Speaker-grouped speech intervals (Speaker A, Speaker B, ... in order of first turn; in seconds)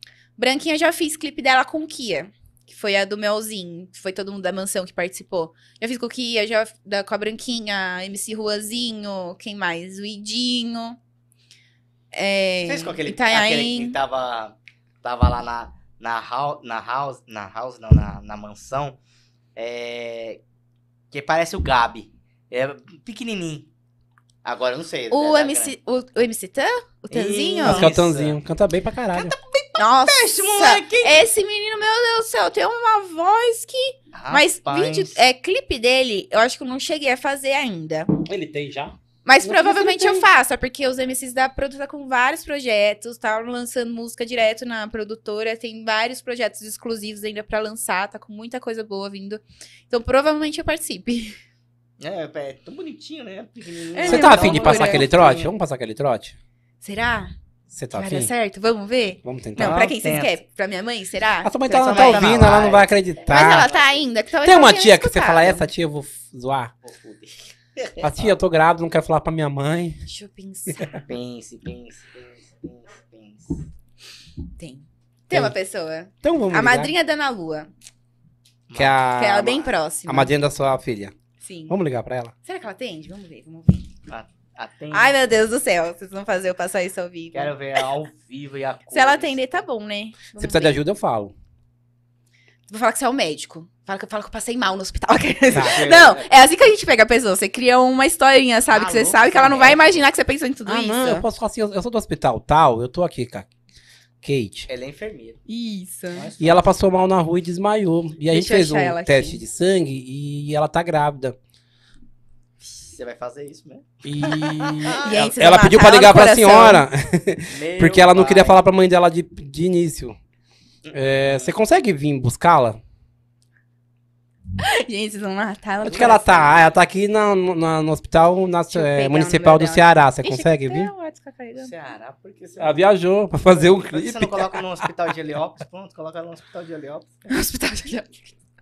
Speaker A: 0.4-11.0, 12.1-14.0, 25.1-27.9, 29.8-38.2, 39.2-51.4, 53.9-55.0, 56.8-57.3, 57.9-62.4, 63.3-65.7, 70.0-71.1, 74.6-77.7, 79.2-80.3, 81.4-81.7, 82.4-83.9, 84.9-87.5, 88.9-90.7, 92.7-101.2, 105.5-106.3, 108.3-109.4, 115.0-116.8, 124.6-126.6, 128.7-131.7, 137.3-138.3
Speaker B: 12.7-19.0, 19.6-20.4, 21.1-23.7, 24.4-25.7, 27.1-28.4, 29.1-31.2, 34.1-35.2, 52.0-55.5, 59.6-60.4, 61.7-64.0, 66.8-68.3, 71.0-73.7, 78.7-79.0, 84.1-85.1, 87.3-89.6, 95.6-96.3, 98.7-100.0, 104.7-105.4, 106.1-106.7, 112.6-115.3, 117.5-118.6, 120.8-121.5, 125.8-126.6, 131.6-132.8, 133.6-137.3
Speaker C: 27.6-29.3, 38.2-40.2, 54.0-56.4, 57.7-58.3, 59.2-59.8, 61.4-63.7, 64.4-66.7, 68.0-70.0, 76.2-76.9, 78.7-81.1, 81.7-82.3, 90.4-91.3, 95.5-95.9, 100.7-103.5, 104.2-104.7, 106.4-111.3, 114.0-120.2, 120.9-122.8, 125.8-130.9, 132.6-134.9